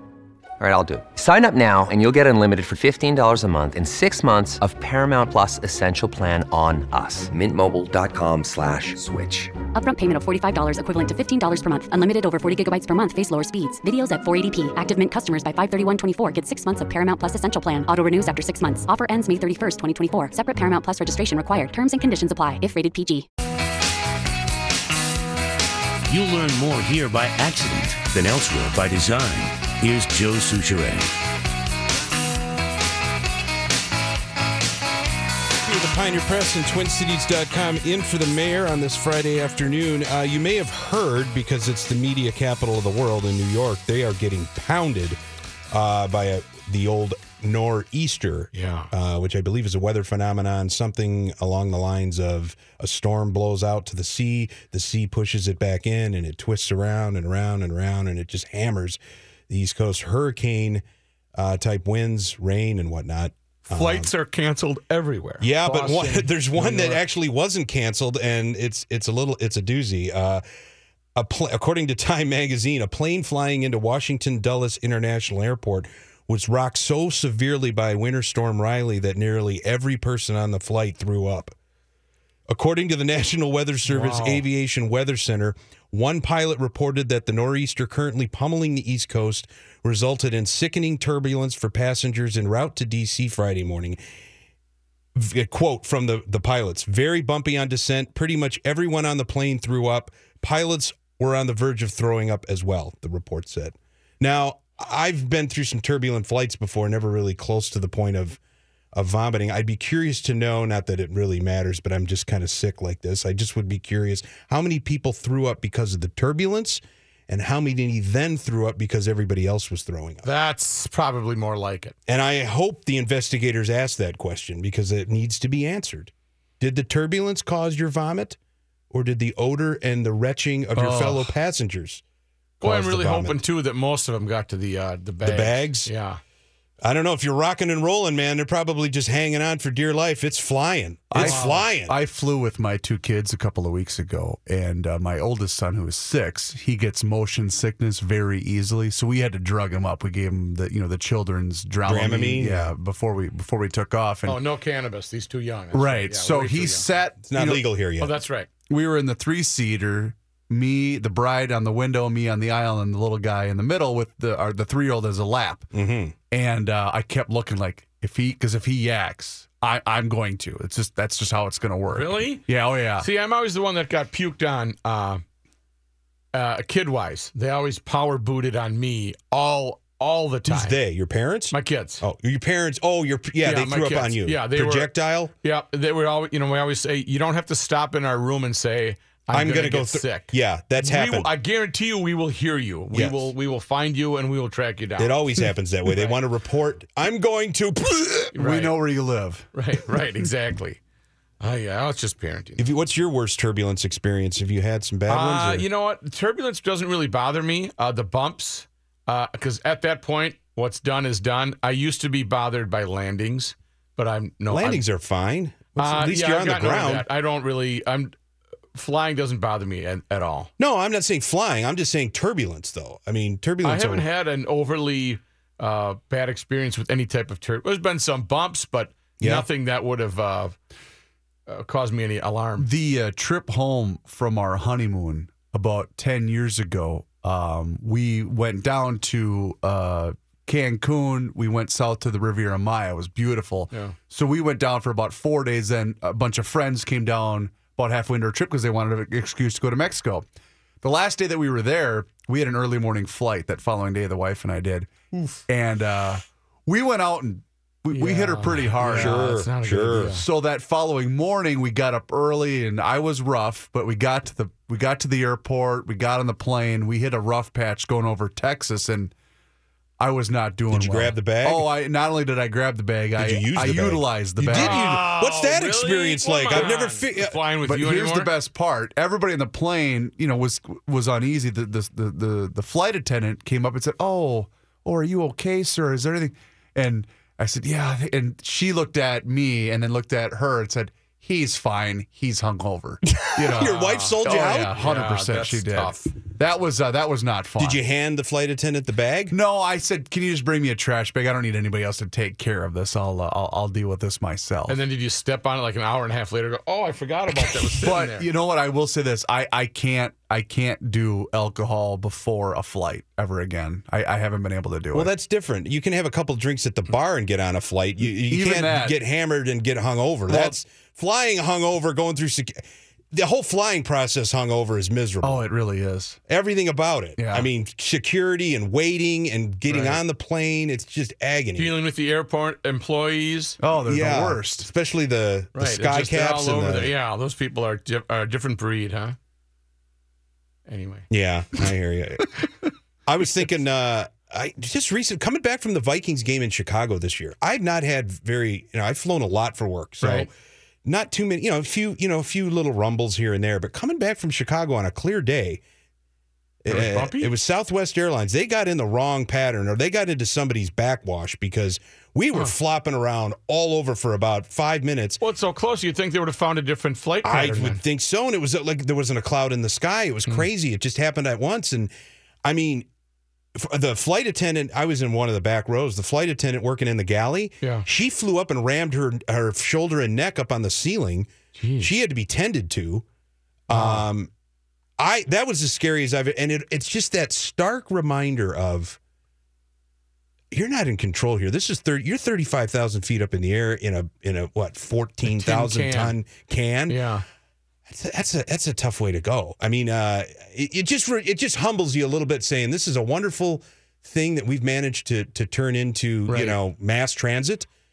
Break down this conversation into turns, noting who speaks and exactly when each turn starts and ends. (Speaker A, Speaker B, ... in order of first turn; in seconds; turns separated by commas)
Speaker A: 0.6-9.5, Speaker B: 9.8-23.3, Speaker C: 26.1-31.1, Speaker D: 35.6-45.2, Speaker D: 45.7-60.8, Speaker E: 48.5-48.9, Speaker D: 61.4-64.1, Speaker E: 63.7-67.0, Speaker D: 65.4-70.4, Speaker D: 71.2-81.5, Speaker D: 82.5-94.0, Speaker E: 83.9-84.5, Speaker D: 95.2-108.4, Speaker D: 108.9-120.3, Speaker E: 120.2-122.0, Speaker D: 122.1-128.4, Speaker D: 128.9-132.0, Speaker F: 130.8-131.4, Speaker D: 132.6-133.4, Speaker E: 132.6-136.2, Speaker D: 135.2-135.9, Speaker D: 136.8-142.0, Speaker F: 141.1-154.4, Speaker E: 141.2-141.7, Speaker D: 151.8-152.7, Speaker E: 154.3-156.9, Speaker F: 155.7-157.7, Speaker D: 157.3-158.2, Speaker E: 158.0-158.5, Speaker F: 158.7-165.7, Speaker D: 165.7-166.2, Speaker F: 166.3-173.1, Speaker E: 171.9-172.5, Speaker E: 173.0-175.2, Speaker E: 176.3-180.8, Speaker D: 180.5-185.3, Speaker E: 181.5-182.0, Speaker E: 183.4-184.9, Speaker E: 185.4-196.2, Speaker D: 189.3-191.3, Speaker D: 192.9-193.3, Speaker D: 195.0-198.3, Speaker E: 198.3-198.8, Speaker F: 198.4-199.5, Speaker E: 199.5-200.8, Speaker E: 201.4-202.7, Speaker D: 202.6-205.7, Speaker E: 205.1-214.8, Speaker D: 214.5-217.1, Speaker E: 215.8-218.1, Speaker E: 218.8-220.5, Speaker D: 220.6-224.1, Speaker E: 223.6-230.6, Speaker D: 229.2-229.5, Speaker E: 231.5-232.7, Speaker F: 232.6-250.3, Speaker F: 250.8-259.4, Speaker E: 257.9-260.2, Speaker D: 258.8-260.2, Speaker F: 260.1-269.1, Speaker F: 270.0-275.1, Speaker D: 270.7-271.7, Speaker D: 273.1-277.4, Speaker E: 274.5-278.3, Speaker F: 277.6-297.8, Speaker D: 293.1-294.8, Speaker E: 293.6-296.1, Speaker D: 297.6-299.4, Speaker F: 299.3-304.8, Speaker E: 304.7-308.3, Speaker F: 307.8-315.1, Speaker D: 314.9-325.5, Speaker F: 318.3-319.0, Speaker F: 320.3-320.6, Speaker F: 325.2-326.2, Speaker D: 326.3-331.8, Speaker F: 327.2-327.5, Speaker E: 329.7-330.0, Speaker E: 331.6-333.6, Speaker F: 333.6-334.7, Speaker D: 333.9-337.0, Speaker E: 335.6-339.2, Speaker E: 340.7-341.1, Speaker D: 341.1-342.4, Speaker D: 343.1-350.3, Speaker E: 350.0-350.3, Speaker D: 350.9-355.6, Speaker D: 356.6-365.2, Speaker E: 356.7-357.3, Speaker E: 365.2-367.8, Speaker D: 367.2-371.9, Speaker D: 372.4-372.9, Speaker D: 373.6-383.1, Speaker E: 381.6-381.9, Speaker D: 383.7-384.3, Speaker E: 383.7-384.1, Speaker D: 385.0-389.0, Speaker D: 390.5-397.0, Speaker E: 395.3-396.2, Speaker E: 396.9-397.2, Speaker D: 397.9-407.7, Speaker E: 406.3-406.6